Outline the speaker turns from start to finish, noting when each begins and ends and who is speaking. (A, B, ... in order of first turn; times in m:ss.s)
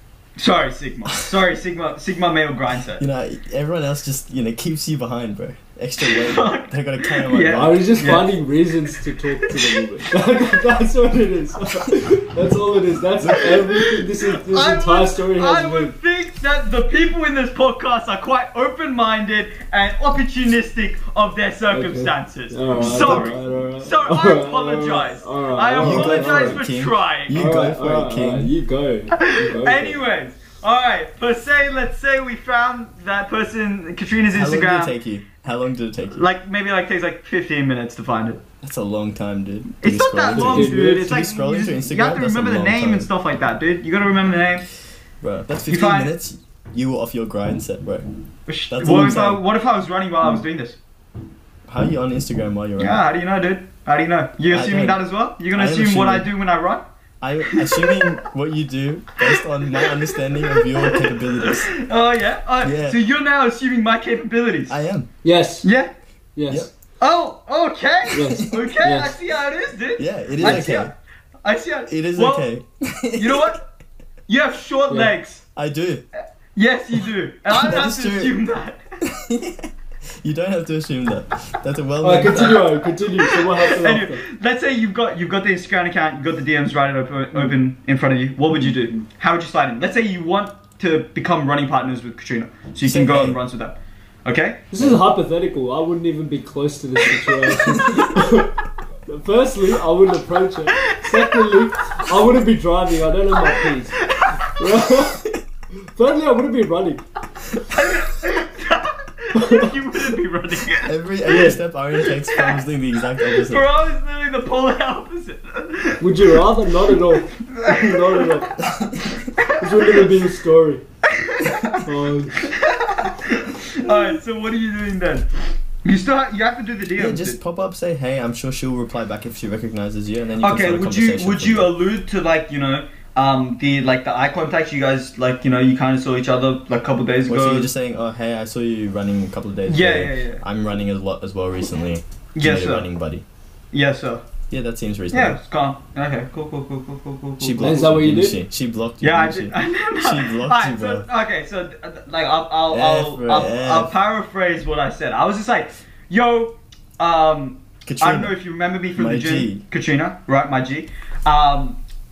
0:00.4-0:03.0 A
0:03.0-0:08.0 B
0:06.0-0:08.4 A
0:07.5-0:16.0 C
0:09.4-0:09.8 A
0:13.2-0:13.6 B
0:13.7-0:27.4 A
0:21.7-0:26.6 C
0:22.8-0:23.4 B
0:25.8-0:28.5 B
0:27.3-0:30.0 C
0:29.1-0:35.0 A
0:34.3-0:36.2 B
0:36.1-0:38.4 A
0:38.6-0:43.1 B
0:39.8-0:44.7 A
0:40.3-0:41.1 C
0:45.2-0:48.1 B
0:45.7-0:46.1 A
0:48.5-0:50.8 A
0:48.7-0:49.4 B
0:51.7-0:53.0 B
0:52.8-0:56.8 A
0:54.5-0:55.0 B
0:55.5-0:56.3 B
0:57.2-1:01.7 B
0:57.5-0:58.0 A
0:59.8-1:04.8 A
1:02.6-1:03.0 B
1:04.7-1:05.1 B
1:05.2-1:05.7 C
1:05.6-1:05.9 A
1:06.4-1:06.7 C
1:07.0-1:12.4 A
1:08.1-1:09.1 C
1:08.2-1:08.6 B
1:10.0-1:10.9 B
1:11.9-1:13.6 B
1:13.2-1:13.6 A
1:14.3-1:15.4 A
1:15.6-1:16.0 B
1:16.6-1:18.8 A
1:17.5-1:18.3 B
1:19.0-1:19.7 B
1:20.2-1:22.8 B
1:22.0-1:24.2 C
1:22.2-1:34.7 A
1:32.8-1:33.4 B
1:34.7-1:38.5 C
1:39.1-1:45.3 C
1:40.8-1:41.3 A
1:43.4-1:44.4 A
1:45.8-1:47.0 C
1:47.6-1:51.0 A
1:49.3-1:49.7 C
1:50.8-1:53.7 B
1:51.3-1:51.6 C
1:52.0-1:56.4 A
1:56.0-1:58.5 C
1:56.9-2:00.1 A
1:58.6-1:59.2 B
1:59.6-2:00.8 C
2:01.1-2:01.8 A
2:01.8-2:02.5 C
2:02.4-2:05.3 A
2:05.8-2:07.4 A
2:07.0-2:11.7 B
2:10.4-2:17.7 A
2:17.3-2:23.2 B
2:19.7-2:20.4 A
2:22.4-2:22.9 A
2:23.7-2:24.2 A
2:24.5-2:25.4 B
2:25.1-2:27.8 A
2:27.4-2:31.1 B
2:27.6-2:28.4 C
2:29.0-2:41.8 A
2:32.7-2:33.9 B
2:37.8-2:38.3 B
2:39.0-2:39.6 B